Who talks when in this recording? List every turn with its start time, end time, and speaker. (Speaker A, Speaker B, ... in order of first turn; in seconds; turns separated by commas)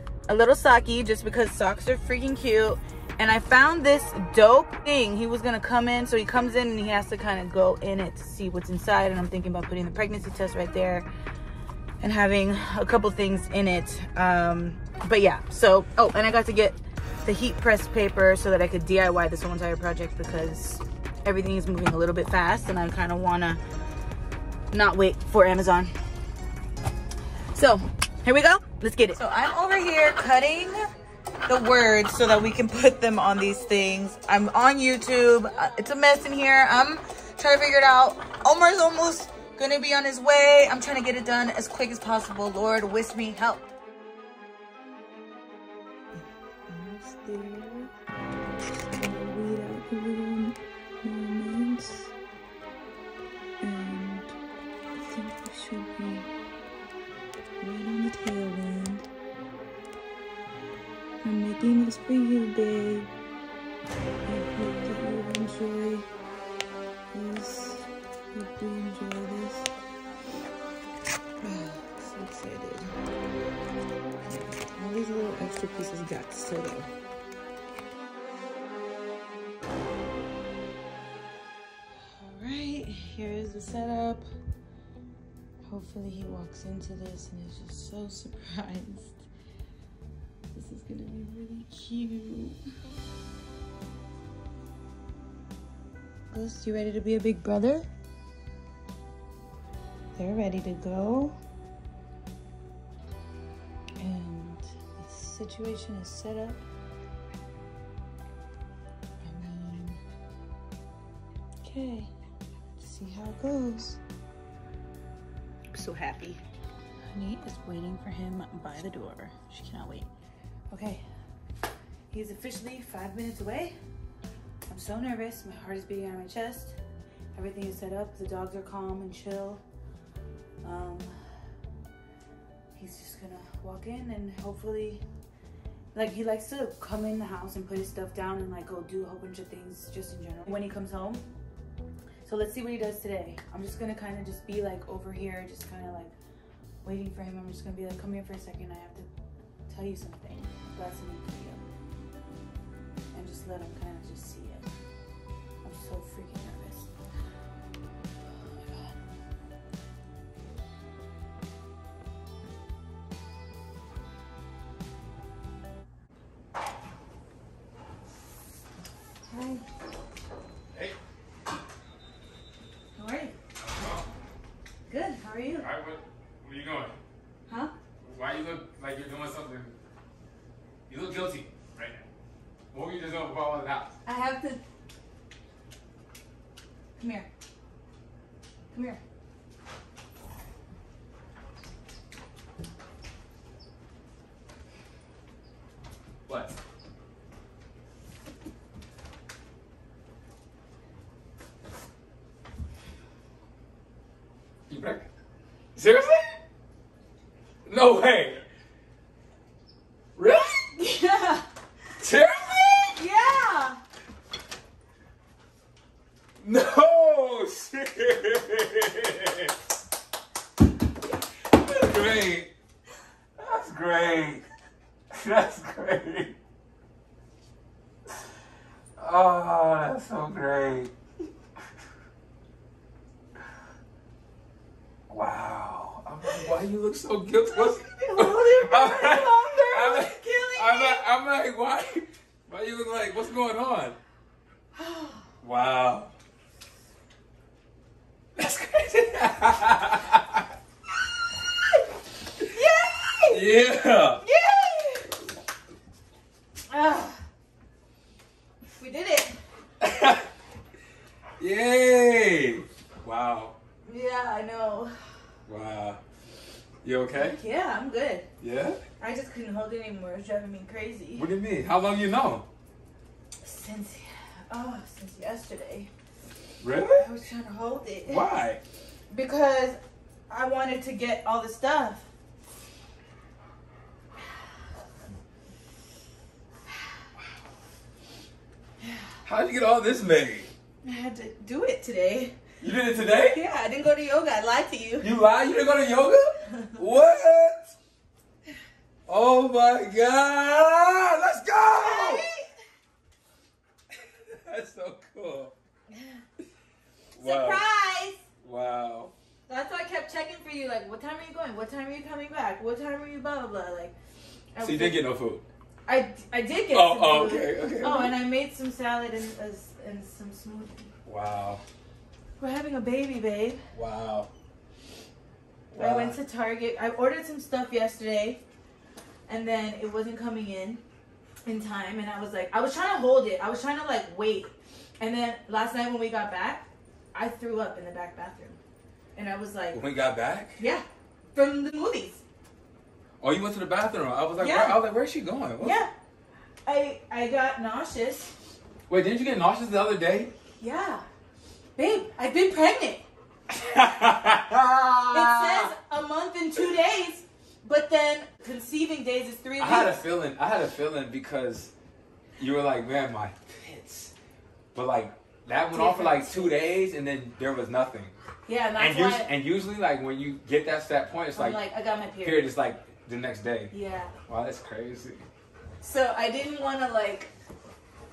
Speaker A: 0.3-11.1, Speaker A: 12.0-23.6, Speaker A: 24.7-25.9, Speaker A: 27.5-30.9, Speaker A: 31.5-43.7, Speaker A: 46.7-47.9, Speaker A: 48.7-52.1, Speaker A: 53.6-54.4, Speaker A: 55.0-56.3, Speaker A: 57.6-59.1, Speaker A: 61.2-63.1, Speaker A: 64.2-66.1, Speaker A: 67.1-69.7, Speaker A: 71.4-73.0, Speaker A: 74.2-76.9, Speaker A: 82.0-84.3, Speaker A: 85.6-89.2, Speaker A: 90.5-92.6, Speaker A: 96.3-97.9, Speaker A: 100.2-101.4, Speaker A: 104.0-106.6, Speaker A: 109.2-110.0, Speaker A: 111.6-112.1, Speaker A: 112.8-114.0, Speaker A: 115.7-116.4, Speaker A: 117.1-120.1, Speaker A: 120.7-121.0, Speaker A: 122.1-123.7, Speaker A: 124.7-126.8, Speaker A: 127.3-129.6, Speaker A: 130.6-131.2, Speaker A: 132.7-135.0, Speaker A: 135.9-141.2, Speaker A: 142.2-146.1, Speaker A: 146.8-149.1, Speaker A: 149.7-151.6, Speaker A: 153.1-154.7, Speaker A: 155.6-156.9, Speaker A: 158.4-158.9, Speaker A: 169.3-169.6, Speaker A: 172.9-173.3, Speaker B: 173.6-174.1, Speaker A: 174.9-175.7, Speaker B: 175.5-177.0, Speaker B: 178.0-179.8, Speaker B: 180.9-182.1, Speaker B: 182.7-183.9, Speaker A: 184.1-184.6, Speaker A: 187.0-187.3, Speaker A: 188.7-189.0, Speaker B: 196.3-196.6, Speaker B: 204.7-205.1, Speaker B: 205.8-206.3, Speaker B: 207.7-208.4, Speaker B: 210.2-210.7, Speaker A: 210.6-211.4, Speaker B: 212.0-213.0, Speaker A: 212.9-213.8, Speaker B: 216.4-219.5, Speaker B: 221.4-222.5, Speaker B: 223.4-224.5, Speaker B: 225.1-226.3, Speaker B: 229.0-230.9, Speaker B: 235.1-244.0, Speaker A: 237.5-241.1, Speaker A: 244.8-245.2, Speaker B: 245.4-246.1, Speaker B: 248.4-250.4, Speaker A: 252.4-253.5, Speaker B: 253.3-254.2, Speaker A: 254.2-255.2, Speaker A: 256.7-257.2, Speaker A: 258.7-259.4, Speaker B: 259.8-260.3, Speaker B: 261.4-263.6, Speaker A: 263.9-264.9, Speaker B: 265.5-266.0, Speaker B: 266.8-267.4, Speaker A: 267.1-268.3, Speaker B: 268.4-268.8, Speaker A: 269.0-271.3, Speaker B: 271.1-272.4, Speaker A: 273.4-275.9, Speaker B: 276.6-277.1, Speaker A: 276.9-278.2, Speaker B: 278.1-278.6, Speaker A: 279.1-282.1, Speaker B: 289.2-290.5, Speaker A: 290.8-292.3, Speaker B: 292.6-293.4, Speaker A: 293.1-295.1, Speaker B: 295.0-297.8, Speaker B: 299.1-302.3, Speaker A: 301.8-302.5, Speaker B: 303.9-305.5, Speaker B: 307.1-307.6, Speaker A: 307.2-308.2, Speaker B: 308.4-309.1, Speaker A: 309.5-313.9, Speaker A: 314.5-315.0, Speaker B: 314.6-315.4, Speaker A: 315.9-320.9, Speaker B: 316.7-318.2, Speaker B: 321.1-321.6, Speaker A: 322.4-323.6, Speaker B: 323.7-324.3, Speaker B: 325.7-326.2, Speaker A: 325.8-328.4, Speaker A: 329.3-330.8, Speaker A: 331.4-338.6, Speaker A: 339.1-339.8, Speaker B: 339.7-340.6, Speaker A: 340.6-342.2, Speaker B: 343.2-345.8, Speaker A: 344.4-344.8, Speaker A: 345.6-345.9, Speaker A: 346.6-348.3, Speaker B: 348.9-350.3, Speaker A: 350.6-351.1, Speaker A: 351.8-353.1, Speaker B: 353.5-355.7, Speaker A: 355.1-360.0, Speaker B: 359.6-361.7, Speaker B: 362.4-364.1, Speaker B: 364.7-368.1, Speaker A: 365.7-366.6, Speaker A: 368.5-369.3, Speaker B: 368.8-371.6, Speaker A: 371.3-372.5, Speaker B: 372.2-373.7, Speaker A: 373.7-374.1, Speaker B: 374.3-375.2, Speaker A: 375.8-377.3